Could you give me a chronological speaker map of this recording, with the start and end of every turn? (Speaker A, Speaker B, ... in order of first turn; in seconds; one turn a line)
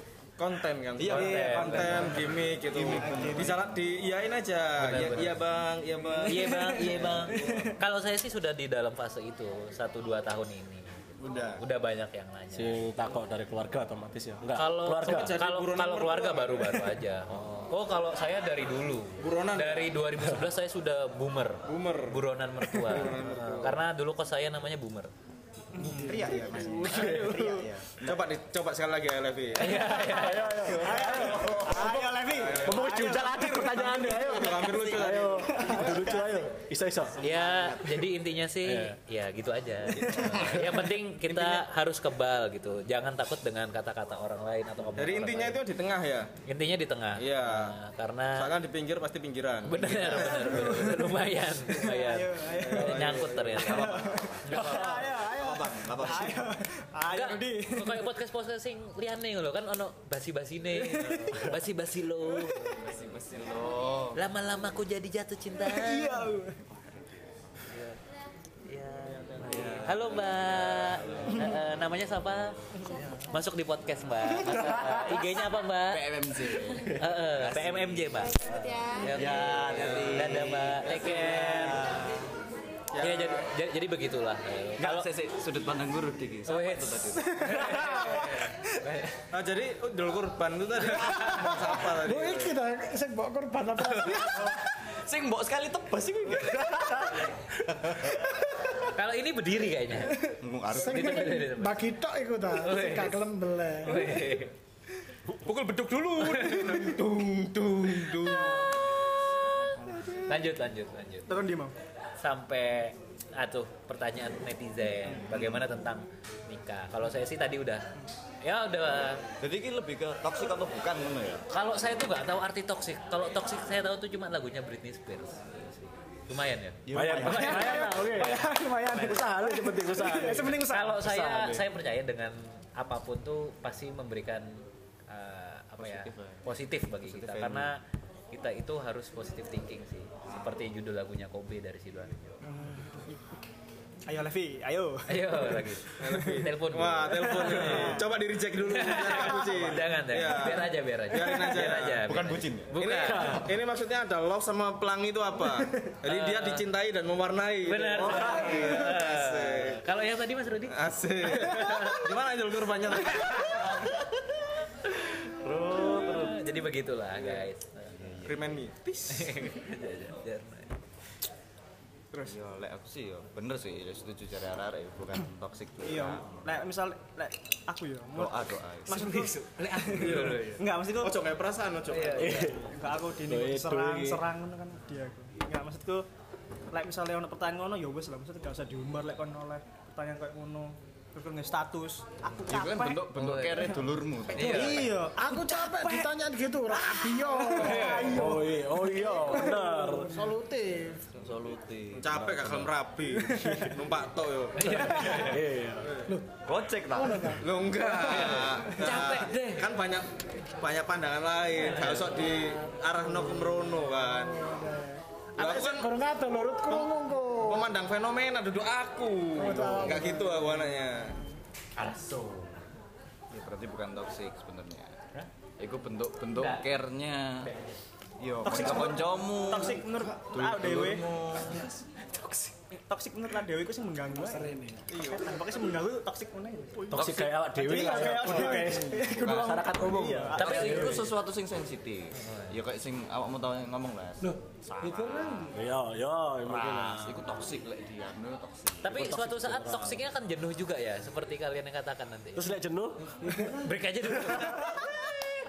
Speaker A: 0.4-7.7
Speaker B: 1.0-3.8
Speaker C: 1.1-2.2
Speaker D: 1.1-1.9
Speaker D: 2.9-3.5
Speaker C: 4.8-5.4
Speaker D: 6.2-7.8
Speaker C: 6.3-13.2
Speaker B: 7.1-7.4
Speaker B: 11.2-11.6
Speaker E: 12.5-15.3
Speaker C: 14.5-25.1
Speaker A: 15.0-16.9
Speaker A: 19.2-20.0
Speaker A: 21.7-23.8
Speaker D: 25.7-27.7
Speaker B: 26.0-28.3
Speaker E: 26.7-27.5
Speaker A: 28.0-29.9
Speaker C: 29.6-31.0
Speaker D: 29.8-34.0
Speaker E: 30.1-37.2
Speaker B: 30.8-32.1
Speaker A: 32.3-35.9
Speaker D: 35.5-36.4
Speaker B: 37.0-38.1
Speaker C: 37.2-45.6
Speaker E: 38.6-38.9
Speaker D: 40.0-40.3
Speaker A: 41.2-41.6
Speaker A: 45.0-46.3
Speaker C: 46.5-48.5
Speaker A: 47.2-47.8
Speaker A: 48.3-50.9
Speaker C: 49.6-55.1
Speaker D: 50.2-58.1
Speaker A: 52.5-53.8
Speaker B: 53.2-56.6
Speaker C: 57.1-62.9
Speaker D: 60.7-61.5
Speaker B: 62.6-64.2
Speaker C: 64.1-66.3
Speaker D: 65.6-66.6
Speaker B: 66.5-67.3
Speaker C: 67.7-68.0
Speaker C: 68.7-76.0
Speaker B: 69.3-71.4
Speaker B: 75.8-82.3
Speaker C: 77.0-81.9
Speaker A: 82.9-83.5
Speaker C: 83.0-85.1
Speaker B: 84.8-88.1
Speaker C: 86.5-89.2
Speaker A: 89.3-92.5
Speaker F: 91.1-94.6
Speaker C: 93.8-94.3
Speaker B: 94.3-98.4
Speaker C: 98.9-101.9
Speaker B: 100.4-101.4
Speaker F: 100.7-104.1
Speaker C: 102.5-103.2
Speaker C: 103.8-104.5
Speaker A: 105.4-108.8
Speaker C: 106.2-106.9
Speaker D: 108.2-108.7
Speaker D: 109.8-110.4
Speaker C: 110.2-111.3
Speaker D: 111.3-111.7
Speaker C: 112.2-117.9
Speaker C: 118.4-119.2
Speaker B: 119.4-121.4
Speaker C: 121.5-129.3
Speaker B: 126.9-127.8
Speaker E: 126.9-131.7
Speaker D: 127.3-131.1
Speaker C: 130.7-137.8
Speaker B: 135.8-136.4
Speaker B: 137.0-137.7
Speaker C: 138.3-142.4
Speaker D: 142.4-143.2
Speaker D: 144.1-146.3
Speaker C: 145.1-148.0
Speaker A: 146.0-152.0
Speaker D: 147.2-148.0
Speaker C: 148.6-153.4
Speaker B: 151.6-152.7
Speaker A: 152.8-159.8
Speaker E: 153.0-153.4
Speaker C: 156.1-156.7
Speaker C: 157.6-162.0
Speaker A: 160.7-163.9
Speaker C: 163.1-163.8
Speaker C: 165.0-167.9
Speaker B: 165.4-166.5
Speaker B: 167.9-168.4
Speaker A: 168.2-169.5
Speaker C: 169.1-170.7
Speaker B: 172.2-176.6
Speaker D: 175.8-181.2
Speaker B: 178.1-179.1
Speaker C: 178.9-180.6
Speaker A: 181.0-182.6
Speaker C: 181.9-182.7
Speaker E: 182.1-182.7
Speaker D: 182.7-186.1
Speaker E: 183.2-184.2
Speaker D: 186.7-193.1
Speaker B: 192.5-194.9
Speaker C: 193.1-193.7
Speaker C: 194.3-194.9
Speaker D: 194.3-196.1
Speaker F: 195.2-201.0
Speaker D: 196.7-198.5
Speaker C: 197.6-198.2
Speaker E: 197.9-200.1
Speaker D: 199.0-199.9
Speaker B: 201.1-202.7
Speaker A: 201.9-205.3
Speaker E: 203.4-203.8
Speaker D: 203.4-203.6
Speaker C: 204.6-205.4
Speaker E: 204.7-205.9
Speaker B: 206.4-207.4
Speaker F: 206.9-207.9
Speaker A: 207.4-214.4
Speaker C: 208.0-209.7
Speaker C: 211.6-212.3
Speaker F: 212.2-217.7
Speaker A: 215.4-215.9
Speaker A: 216.7-221.2
Speaker F: 219.3-220.9
Speaker C: 221.8-222.6
Speaker B: 223.3-225.0
Speaker B: 225.6-227.5
Speaker C: 226.3-226.6
Speaker B: 228.2-231.7
Speaker D: 228.4-231.1
Speaker C: 232.2-232.5
Speaker D: 232.7-240.9
Speaker E: 234.2-234.9
Speaker A: 234.9-235.3
Speaker E: 236.9-241.0
Speaker B: 236.9-238.2
Speaker F: 237.7-238.9
Speaker B: 239.0-245.5
Speaker C: 240.3-241.1
Speaker C: 242.2-242.6
Speaker F: 244.2-245.5
Speaker E: 245.5-247.2
Speaker B: 246.5-249.1
Speaker C: 248.8-252.6
Speaker E: 248.9-250.0
Speaker E: 252.3-253.6
Speaker F: 253.3-253.7
Speaker C: 253.4-255.1
Speaker E: 254.3-254.8